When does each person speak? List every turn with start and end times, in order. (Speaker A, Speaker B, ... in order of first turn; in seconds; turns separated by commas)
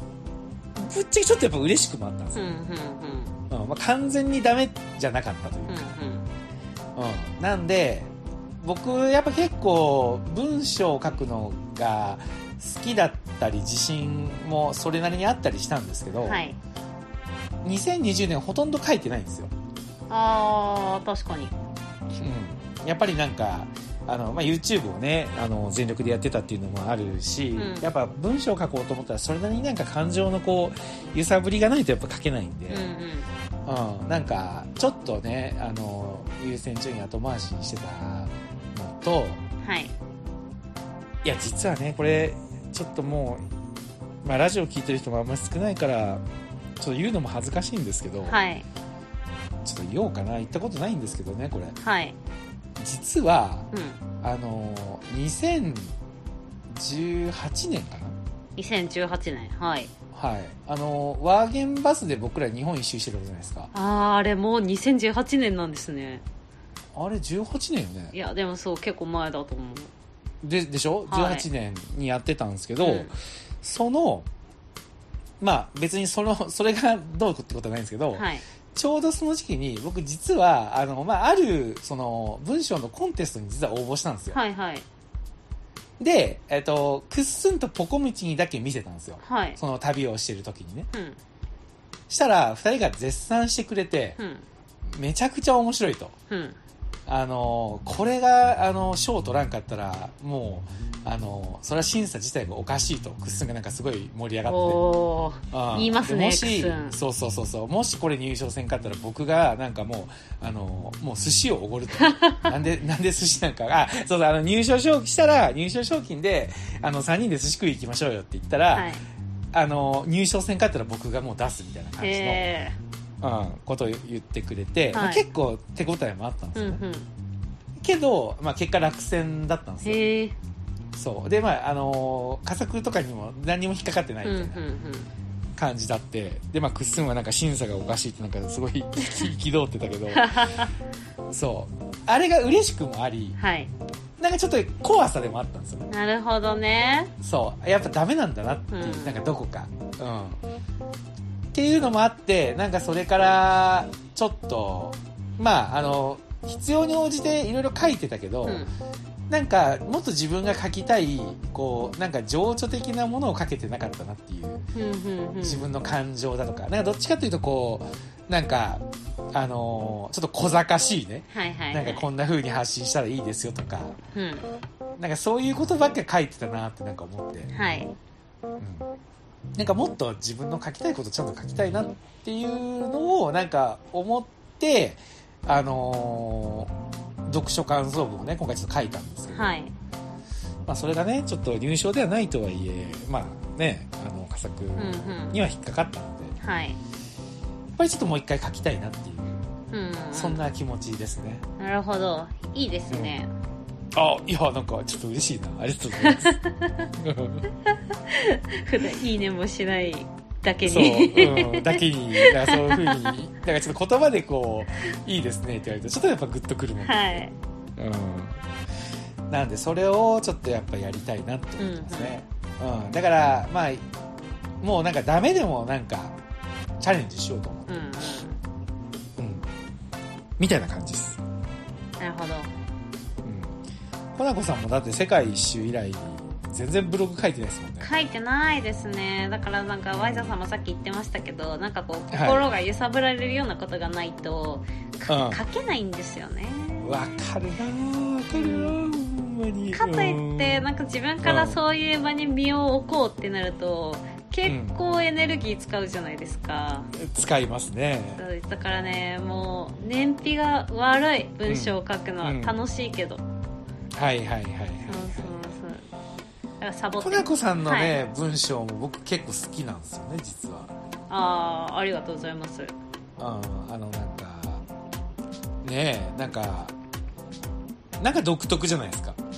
Speaker A: 0.8-2.5, Speaker B: 2.3-3.3, Speaker A: 3.5-5.9, Speaker B: 5.7-6.3, Speaker A: 7.0-16.4, Speaker B: 16.2-16.6, Speaker A: 17.6-19.5, Speaker B: 20.1-21.5, Speaker A: 22.2-32.9, Speaker B: 27.6-27.9, Speaker B: 32.7-33.3, Speaker A: 33.6-39.4, Speaker B: 39.6-39.9, Speaker A: 41.2-43.4, Speaker A: 44.2-46.2, Speaker A: 46.8-48.4, Speaker B: 48.3-48.6, Speaker A: 49.6-51.7, Speaker B: 51.8-52.2, Speaker A: 52.8-53.7, Speaker B: 53.7-54.0, Speaker A: 54.2-55.9, Speaker A: 56.7-58.2, Speaker B: 58.6-59.9, Speaker A: 60.1-63.7, Speaker B: 63.7-66.2, Speaker A: 66.9-68.1, Speaker B: 68.1-69.9, Speaker A: 70.4-74.3, Speaker B: 71.1-71.5, Speaker B: 72.8-73.1, Speaker A: 75.4-84.4, Speaker B: 78.1-78.4, Speaker B: 84.3-84.8, Speaker A: 86.0-90.9, Speaker B: 89.2-89.6, Speaker B: 90.9-91.2, Speaker A: 92.1-94.2, Speaker B: 94.2-94.4, Speaker A: 94.9-96.1, Speaker B: 96.3-96.6, Speaker A: 97.1-104.8, Speaker B: 104.5-107.0, Speaker A: 105.5-118.9, Speaker B: 112.0-112.5, Speaker B: 118.7-119.0, Speaker A: 119.5-122.5, Speaker B: 122.0-122.8, Speaker A: 123.2-126.8, Speaker B: 124.9-125.2, Speaker B: 126.5-127.1, Speaker A: 127.8-130.0, Speaker B: 129.8-130.3, Speaker A: 130.9-134.6, Speaker B: 134.2-135.1, Speaker A: 135.6-140.6, Speaker B: 140.1-140.7, Speaker A: 141.3-143.4, Speaker B: 143.4-143.7, Speaker A: 144.2-145.9, Speaker B: 145.9-147.1, Speaker A: 147.2-150.4, Speaker B: 148.7-149.2, Speaker A: 151.5-158.6, Speaker B: 158.4-158.7, Speaker A: 159.3-164.7, Speaker B: 164.7-165.7, Speaker A: 165.4-174.0, Speaker B: 171.3-172.0, Speaker B: 174.1-174.4, Speaker A: 175.0-177.5, Speaker B: 177.5-177.9, Speaker A: 178.6-178.9, Speaker A: 179.5-186.7, Speaker A: 187.3-189.6, Speaker B: 189.3-189.7, Speaker A: 190.7-196.3, Speaker B: 194.8-195.4, Speaker B: 196.4-196.8, Speaker A: 197.8-199.4, Speaker B: 199.7-200.4, Speaker A: 200.1-201.4, Speaker B: 201.6-203.3, Speaker A: 202.9-203.2, Speaker A: 203.9-206.4, Speaker B: 206.0-206.9, Speaker A: 206.9-207.5, Speaker B: 207.7-213.1, Speaker A: 210.7-217.2, Speaker B: 216.8-217.3, Speaker A: 217.8-218.4, Speaker A: 219.3-223.8, Speaker B: 221.6-222.1, Speaker A: 224.6-226.2, Speaker A: 226.8-227.8, Speaker B: 227.7-228.4, Speaker A: 229.2-229.4, Speaker A: 230.4-231.2, Speaker B: 232.0-232.5, Speaker A: 233.2-233.6, Speaker A: 234.1-237.9, Speaker B: 237.8-247.2, Speaker A: 239.9-240.4, Speaker A: 242.1-242.5, Speaker A: 245.1-245.4, Speaker A: 246.8-250.6, Speaker B: 248.3-248.8, Speaker B: 249.7-256.9, Speaker A: 251.2-251.6, Speaker A: 254.4-254.8, Speaker A: 256.9-258.2, Speaker B: 258.2-263.2, Speaker A: 261.5-262.5, Speaker A: 263.9-265.4, Speaker B: 264.9-265.9, Speaker B: 266.6-267.9, Speaker A: 267.0-270.7, Speaker B: 271.1-272.7, Speaker A: 273.2-274.6, Speaker A: 275.6-276.7, Speaker A: 278.0-279.2